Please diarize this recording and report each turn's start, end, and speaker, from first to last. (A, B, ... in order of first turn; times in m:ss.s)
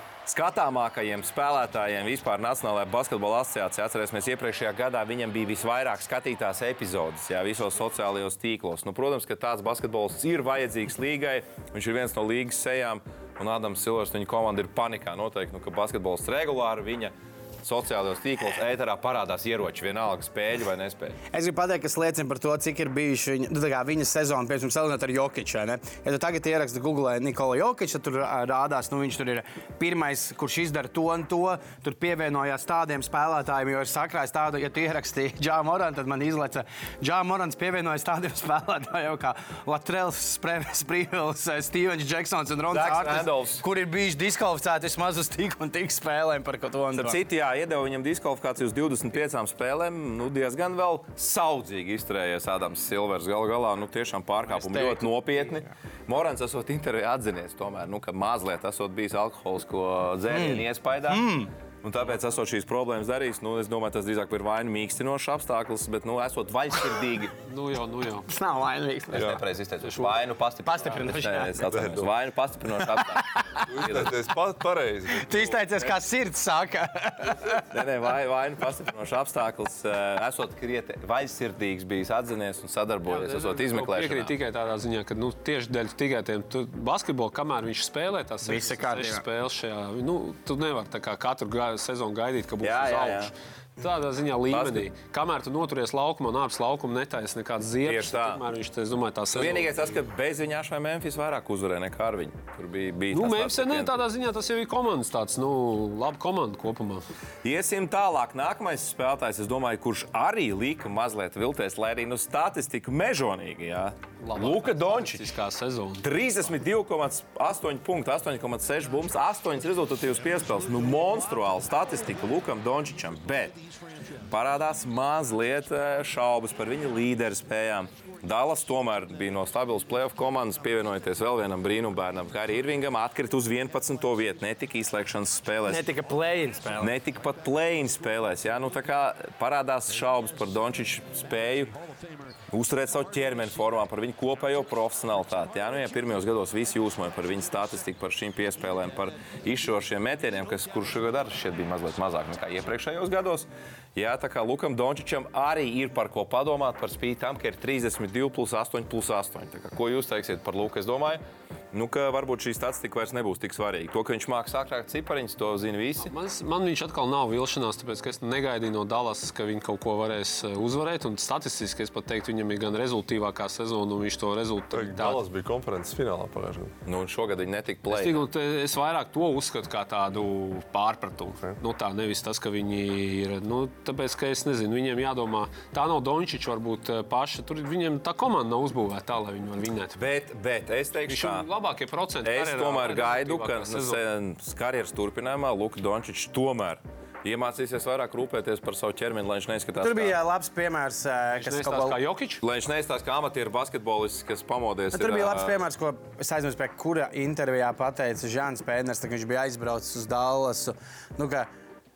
0:00.3-0:21.2 A
0:21.3-0:47.2 B
0:42.7-0:43.6 A
0:46.9-1:01.3 A
0:54.4-0:55.1 B
1:00.3-1:01.5 B
1:01.8-1:07.3 A
1:07.5-1:08.3 C
1:08.3-1:09.4 B
1:09.1-1:13.3 A
1:09.1-1:09.4 D
1:10.6-1:11.7 B
1:11.6-1:12.1 D
1:12.8-1:13.9 B
1:13.7-1:15.5 D
1:13.8-1:14.1 A
1:15.2-1:17.6 B
1:17.6-1:24.3 A
1:23.1-1:39.9 C
1:28.4-1:29.2 B
1:32.6-1:33.3 A
1:34.5-1:34.8 A
1:37.9-1:38.4 A
1:39.3-1:44.0 A
1:43.1-1:47.0 C
1:47.4-1:55.3 A
1:54.2-1:56.1 C
1:56.0-2:03.6 A
2:04.3-2:15.8 A
2:15.7-2:17.0 B
2:16.8-2:21.7 A
2:22.5-2:46.1 A
2:46.0-2:55.2 C
2:54.7-2:56.8 D
2:56.9-2:58.2 A
2:57.9-3:10.0 C
3:10.0-3:11.5 A
3:11.1-3:14.0 C
3:12.2-3:20.2 A
3:19.8-3:22.0 B
3:21.4-3:22.4 C
3:22.4-3:25.6 A
3:24.9-3:31.5 B